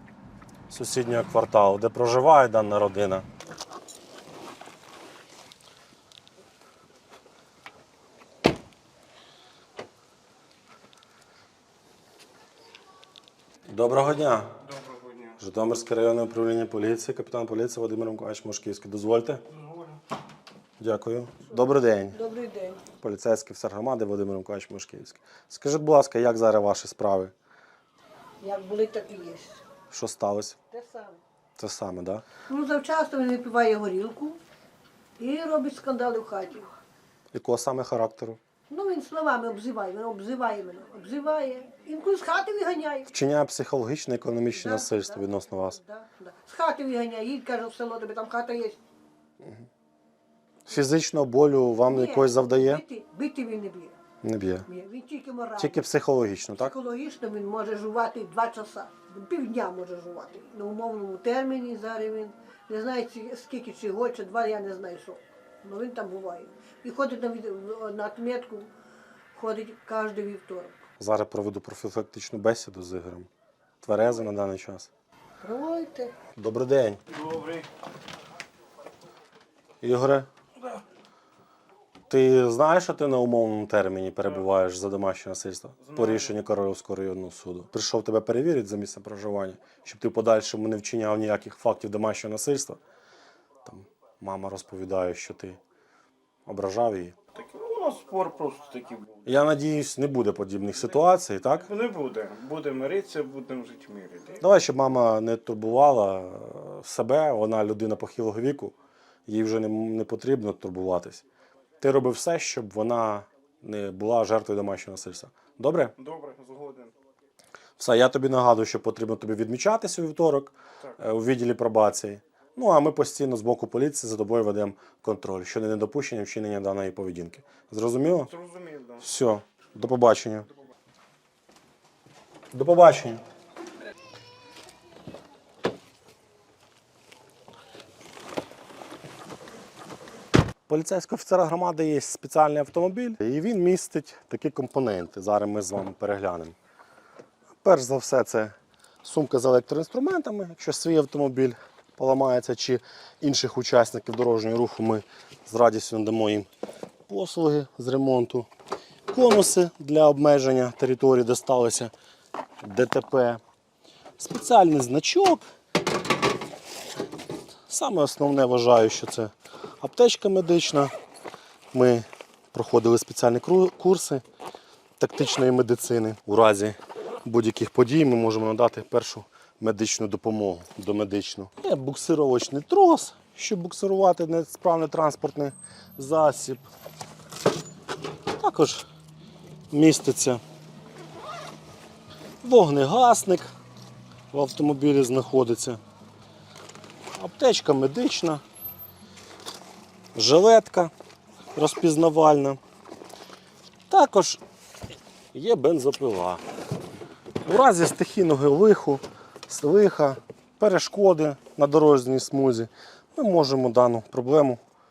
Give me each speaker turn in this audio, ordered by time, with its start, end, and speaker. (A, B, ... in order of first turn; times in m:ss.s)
0:00.7-0:03.2 A
0:13.7-0:14.5 A
0:14.9-0:15.3 B
0:15.3-0:19.5 A
0:20.8-0:22.2 A
0:22.1-0:22.8 C
0:23.0-0:27.3 A
0:28.4-0:29.6 C
0:29.9-0:30.6 A
0:30.7-0:31.2 C
0:31.6-0:32.2 A
0:32.5-0:34.4 C
0:35.2-0:36.7 C
0:37.3-0:38.4 A
0:38.7-0:43.1 C
0:43.1-0:45.8 A
0:44.5-0:48.8 C
0:50.7-0:52.8 A
0:51.9-0:54.0 C
0:54.2-0:54.7 A
0:54.7-0:55.9 C
0:55.6-0:56.8 A
0:56.6-1:08.7 C
1:09.4-1:10.8 C
1:11.0-1:13.3 A
1:13.8-1:14.9 A
1:15.4-1:16.2 C
1:16.4-1:17.0 A
1:17.2-1:17.7 B
1:19.8-1:20.3 A
1:22.1-1:32.8 A
1:33.6-1:35.6 A
1:36.5-1:37.2 A
1:37.4-1:39.3 B
1:39.3-1:41.7 A
1:41.7-1:44.4 B
1:44.4-1:48.7 A
1:49.3-1:51.2 A
1:51.8-1:56.0 A
1:56.0-1:56.9 B
1:57.8-2:08.3 A
2:08.3-2:09.0 B
2:09.0-2:10.5 A
2:12.5-2:13.2 A
2:20.7-2:26.6 A
2:27.6-2:36.5 A
2:37.1-2:38.5 A
2:39.1-2:41.9 A
2:42.6-2:43.4 A
2:44.2-2:45.4 A
2:47.7-2:50.9 A
2:51.7-2:54.2 A
2:55.0-3:06.7 A
3:08.4-3:08.8 A
3:09.7-3:10.4 A
3:12.4-3:13.5 A
3:14.3-3:15.8 A
3:17.2-3:18.4 A
3:20.2-3:20.9 A
3:21.6-3:22.6 A
3:23.9-3:24.4 A
3:25.3-3:26.4 A
3:27.4-3:34.6 A